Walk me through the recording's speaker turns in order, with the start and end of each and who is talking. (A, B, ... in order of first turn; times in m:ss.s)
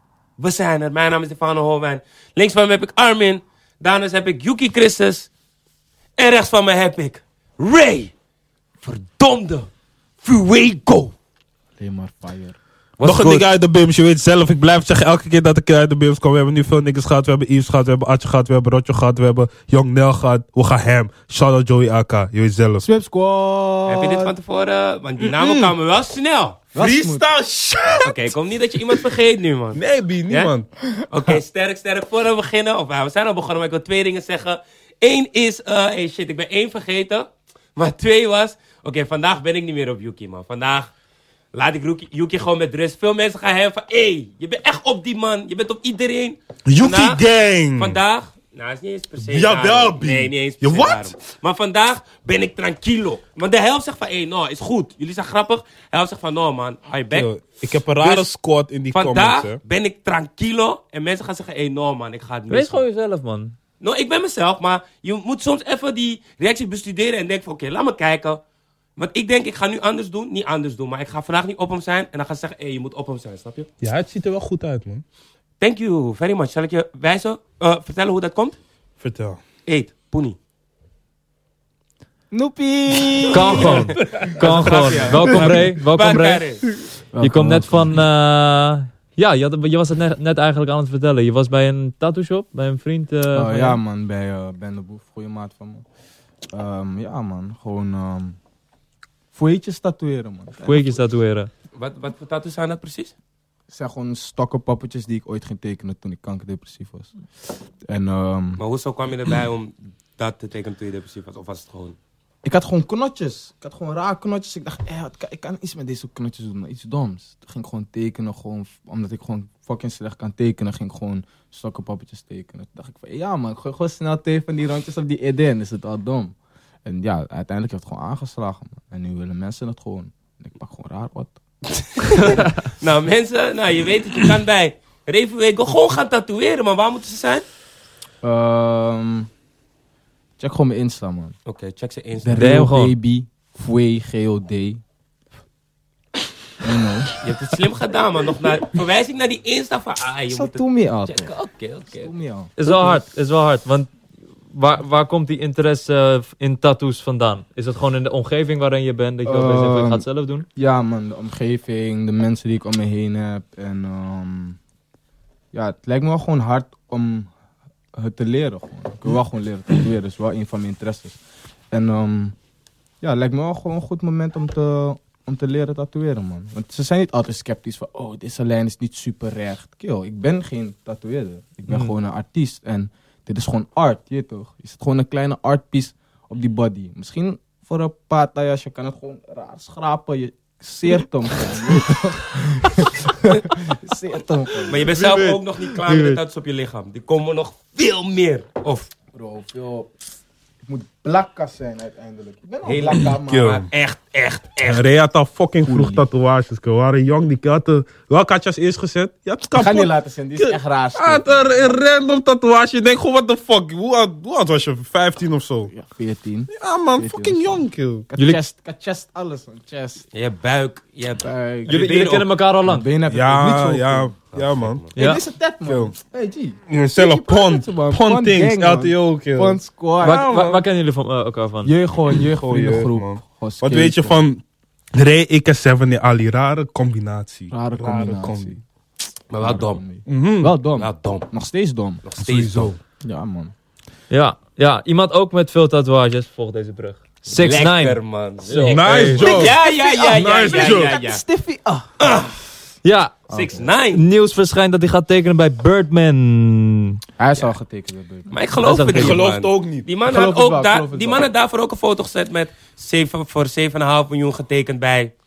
0:00.4-0:05.3 A
0:06.2-0:08.1 A
0:08.8-0:09.7 A
0:10.2-0:11.1 A
0:11.8-0:12.6 B
0:13.0-0:13.5 A
0:13.0-0:22.9 C
0:22.8-0:24.3 B
0:23.9-0:26.6 A
0:25.2-0:25.7 C
0:26.7-0:27.2 B
0:26.8-0:28.3 C
0:28.0-0:30.5 A
0:29.7-0:30.7 C
0:31.0-0:40.9 A
0:41.5-0:47.2 A
0:46.7-0:48.0 C
0:47.8-0:57.3 A
0:49.2-0:51.1 C
0:57.1-0:59.6 C
0:57.9-0:58.3 A
0:58.9-1:02.8 A
1:02.5-1:03.5 D
1:03.8-1:08.4 A
1:09.0-1:13.7 A
1:13.8-1:15.0 C
1:15.6-1:18.6 A
1:19.0-1:19.4 C
1:19.6-1:20.4 A
1:22.3-1:24.1 B
1:23.2-1:26.6 A
1:23.3-1:26.4 D
1:27.1-1:28.0 B
1:27.2-1:33.8 D
1:33.3-1:35.8 B
1:36.5-1:38.4 B
1:39.3-1:41.0 B
1:40.6-1:41.5 D
1:41.7-1:43.1 A
1:43.7-1:47.1 B
1:47.8-1:48.6 B
1:48.6-1:52.0 A
1:52.4-2:11.4 B
2:12.0-2:17.4 A
2:18.2-2:19.3 B
2:20.4-2:21.3 B
2:21.4-2:22.4 A
2:22.2-2:24.8 B
2:22.4-2:22.9 D
2:26.6-2:27.1 B
2:27.2-2:32.1 A
2:30.3-2:31.3 B
2:31.9-2:33.0 B
2:32.6-2:33.9 D
2:34.5-2:40.4 D
2:39.2-2:44.6 B
2:45.5-2:47.3 B
2:47.9-2:51.2 B
2:51.7-2:52.3 B
2:53.0-3:14.8 B
3:14.6-3:18.9 A
3:14.8-3:16.2 D
3:19.1-3:19.9 B
3:20.6-3:23.6 B
3:22.6-3:24.8 A
3:22.9-3:23.7 C
3:24.6-3:35.7 C
3:25.6-3:26.0 B
3:29.5-3:31.7 B
3:35.7-3:40.0 B
3:36.5-3:38.1 C
3:40.1-3:42.3 A
3:41.2-3:44.1 B
3:41.7-3:42.9 D
3:43.1-3:44.8 C
3:44.3-3:44.9 A
3:45.0-3:45.2 D
3:45.0-3:50.4 B
3:45.6-3:45.9 C
3:46.7-3:50.6 C
3:50.0-3:51.7 D
3:51.6-3:54.2 B
3:52.1-3:54.4 C
3:54.9-3:58.6 C
3:57.5-3:58.6 B
3:59.3-3:59.8 A
3:59.4-4:02.0 B
4:00.1-4:00.5 C
4:00.8-4:01.3 A
4:02.0-4:02.7 A
4:02.2-4:02.8 C
4:03.0-4:03.5 B
4:04.1-4:09.3 D
4:07.3-4:11.2 A
4:08.6-4:09.6 C
4:09.1-4:11.9 B
4:10.1-4:10.9 C
4:12.0-4:12.3 A
4:12.8-4:13.2 D
4:13.3-4:13.7 B
4:13.3-4:14.0 A
4:13.9-4:17.0 D
4:17.2-4:18.3 B
4:18.3-4:25.1 A
4:18.6-4:19.3 D
4:18.9-4:19.9 C
4:20.1-4:21.2 B